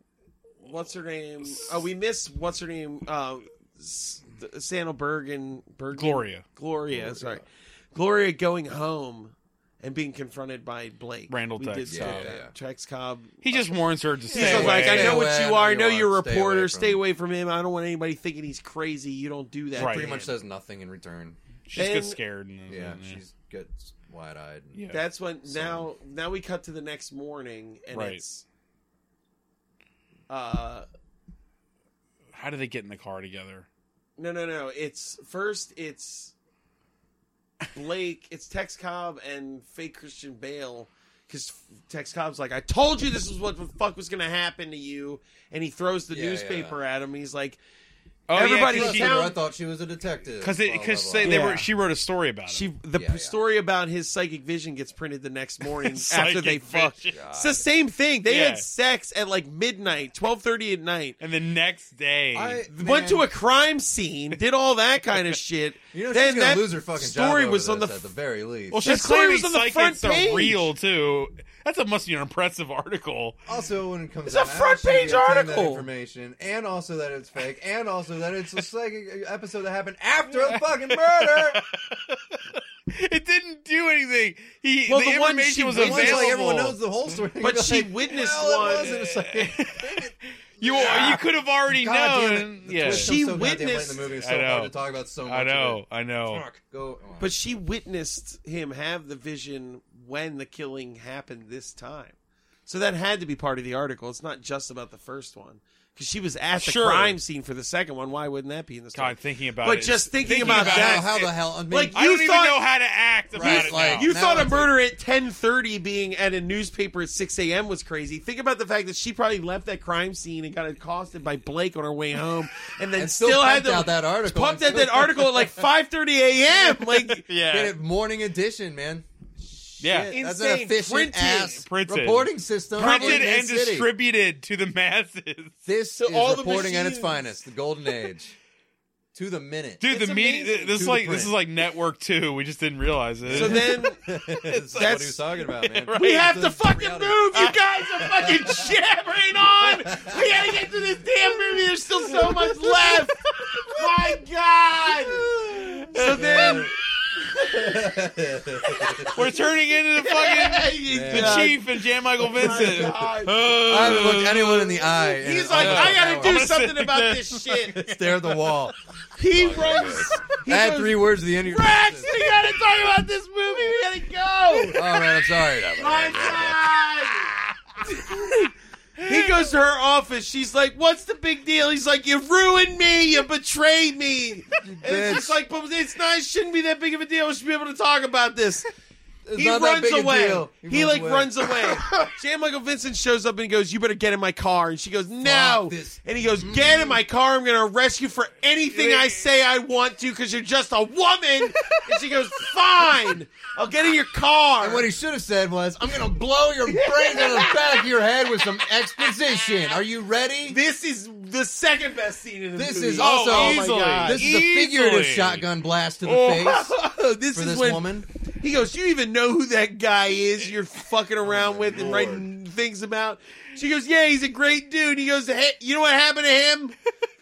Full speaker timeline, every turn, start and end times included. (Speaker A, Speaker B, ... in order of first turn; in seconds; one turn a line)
Speaker A: 0.6-13.8
Speaker B: 5.9-6.4
Speaker C: 6.9-7.4
Speaker B: 11.3-12.3
Speaker C: 11.9-12.5
Speaker B: 13.4-15.2
Speaker A: 14.3-20.3
Speaker C: 14.3-17.0
Speaker B: 19.8-20.1
Speaker C: 19.8-21.4
Speaker B: 21.6-23.2
Speaker A: 21.7-22.2
Speaker C: 22.7-24.8
Speaker B: 24.7-25.0
Speaker A: 24.9-28.4
Speaker C: 25.4-25.9
Speaker B: 27.9-28.2
Speaker A: 30.3-30.9
Speaker B: 32.3-33.6
Speaker A: 34.2-36.3
Speaker A: 37.7-47.6
Speaker C: 46.1-46.8
Speaker B: 48.3-49.2
Speaker A: 48.3-49.4
Speaker C: 48.4-51.4
Speaker B: 50.4-52.7
Speaker A: 51.2-51.7
Speaker A: 52.5-61.1
Speaker C: 52.9-53.4
Speaker B: 55.6-57.2
Speaker C: 57.1-57.6
Speaker B: 58.2-58.6
Speaker B: 61.2-62.6
Speaker C: 62.3-63.3
Speaker A: 62.7-68.0
Speaker C: 65.9-68.8
Speaker B: 68.7-73.4
Speaker A: 68.8-70.7
Speaker C: 73.5-81.6
Speaker A: 74.2-75.8
Speaker B: 80.3-86.8
Speaker A: 84.9-86.3
Speaker C: 85.7-97.3
Speaker A: 87.4-88.9
Speaker B: 88.6-93.1
Speaker A: 92.8-94.0
Speaker B: 94.2-94.7
Speaker B: 95.2-96.5
Speaker A: 97.2-112.6
Speaker B: 106.6-107.2
Speaker B: 108.9-111.2
Speaker C: 110.4-112.0
Speaker B: 111.9-114.1
Speaker C: 113.3-114.8
Speaker A: 113.3-127.2
Speaker C: 123.0-125.5
Speaker B: 126.6-127.8
Speaker C: 127.4-133.9
Speaker B: 129.8-130.1
Speaker A: 130.1-131.6
Speaker B: 131.6-135.5
Speaker A: 132.8-133.3
Speaker C: 135.7-138.3
Speaker A: 135.9-137.3
Speaker C: 139.1-139.9
Speaker B: 139.8-143.8
Speaker A: 139.8-140.8
Speaker C: 140.7-141.4
Speaker C: 143.2-147.5
Speaker A: 143.3-144.0
Speaker B: 144.5-146.5
Speaker A: 144.8-145.2
Speaker A: 145.9-153.2
Speaker C: 148.1-148.7
Speaker C: 149.6-150.2
Speaker B: 152.3-153.8
Speaker A: 153.7-155.3
Speaker C: 155.3-156.7
Speaker B: 155.4-156.6
Speaker A: 155.9-157.9
Speaker C: 157.5-159.3
Speaker A: 158.6-159.3
Speaker B: 159.1-168.6
Speaker A: 160.0-164.1
Speaker C: 160.9-161.6
Speaker C: 162.4-163.1
Speaker C: 163.6-166.4
Speaker A: 165.2-167.8
Speaker C: 167.7-168.7
Speaker A: 169.2-175.1
Speaker C: 169.3-172.1
Speaker C: 174.7-176.6
Speaker A: 175.6-177.3
Speaker A: 177.8-188.7
Speaker B: 179.0-179.3
Speaker C: 184.6-185.4
Speaker C: 189.2-191.3
Speaker A: 189.3-204.9
Speaker C: 195.2-197.0
Speaker B: 198.7-199.2
Speaker B: 201.5-201.8
Speaker C: 204.6-210.6
Speaker A: 206.7-207.9
Speaker A: 210.4-214.2
Speaker C: 212.5-216.8
Speaker B: 213.0-215.5
Speaker A: 216.0-226.8
Speaker C: 217.3-218.1
Speaker C: 221.2-222.2